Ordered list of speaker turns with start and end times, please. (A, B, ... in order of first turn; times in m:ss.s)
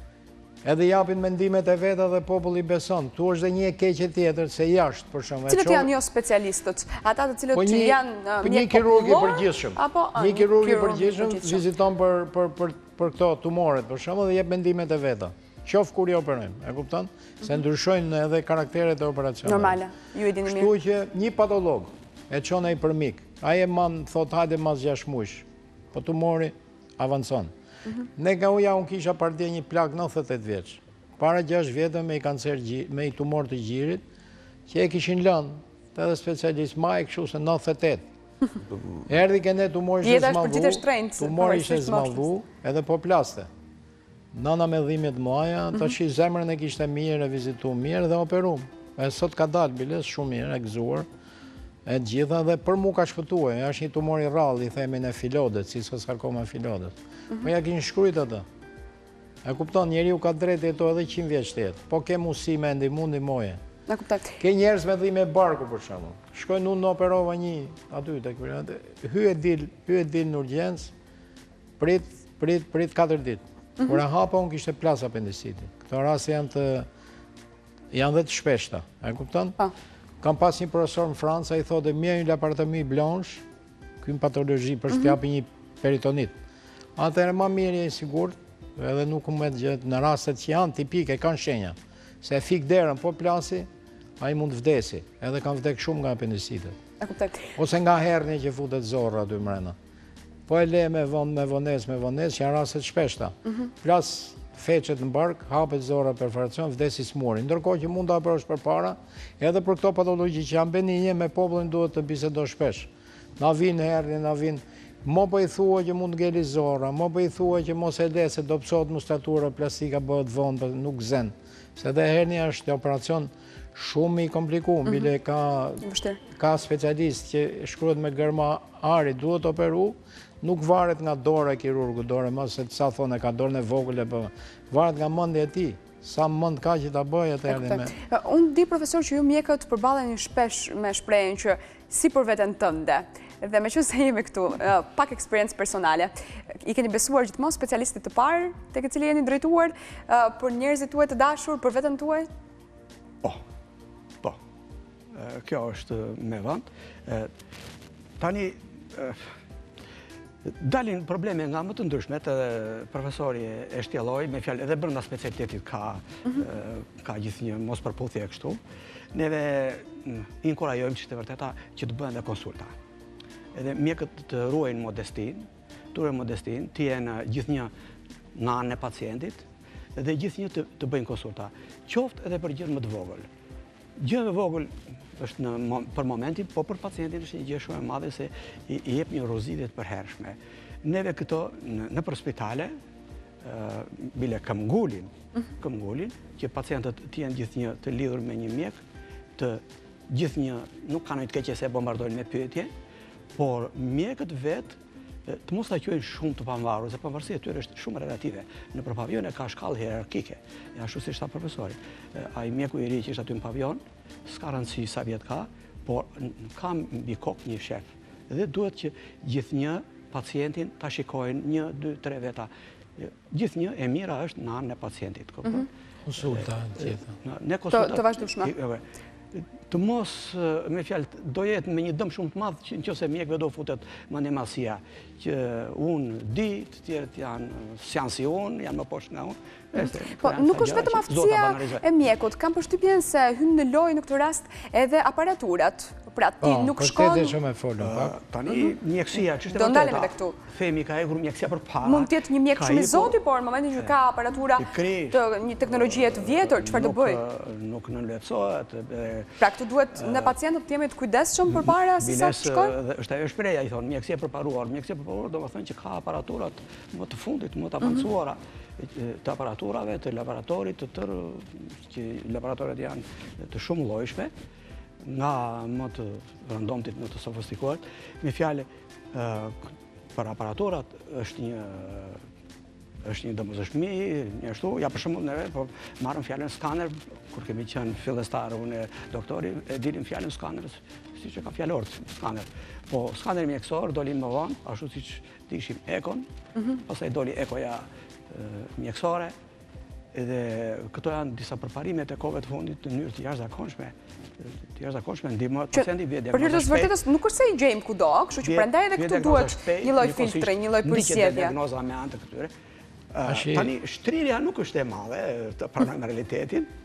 0:00.6-0:05.9 A
0:05.5-0:11.6 B
0:07.5-0:19.8 A
0:19.4-0:20.7 B
0:20.4-0:27.5 A
0:28.2-0:34.0 A
0:34.7-0:38.0 A
0:39.1-0:43.5 A
0:40.0-0:42.2 B
0:44.3-0:51.1 A
0:51.8-0:58.4 A
0:59.4-1:03.6 A
1:03.9-1:04.3 B
1:04.4-1:10.9 A
1:11.8-1:16.9 A
1:17.9-1:19.6 A
1:20.2-1:23.4 A
1:24.0-1:26.3 A
1:27.0-1:33.7 A
1:34.2-1:36.8 A
1:37.0-1:37.5 B
1:37.6-1:39.8 A
1:40.5-2:17.9 A
2:05.8-2:06.2 B
2:17.5-2:32.3 B
2:35.1-2:37.3 C
2:38.2-2:39.3 C
2:40.4-2:48.6 C
2:49.1-2:52.7 C
2:53.5-2:57.7 C
2:58.4-2:59.4 C
3:00.0-3:03.3 C
3:04.0-3:12.8 C
3:13.4-3:18.8 C
3:19.4-3:22.7 C
3:23.4-3:45.7 C
3:46.1-3:47.1 A
3:46.2-4:01.8 C
3:47.7-3:48.5 B
3:59.8-4:07.4 B
4:06.4-4:08.2 A
4:07.8-4:13.2 C
4:08.5-4:08.7 B
4:09.4-4:10.4 B
4:11.8-4:17.2 B
4:14.6-4:19.4 C
4:19.4-4:22.8 B
4:20.0-4:20.3 C
4:21.5-4:34.3 C
4:35.0-4:42.2 C
4:43.0-4:56.3 C
4:56.8-4:59.3 C
5:00.1-5:06.9 C
5:05.7-5:11.6 B
5:08.4-5:12.5 C
5:13.1-5:16.7 C
5:13.3-5:13.7 A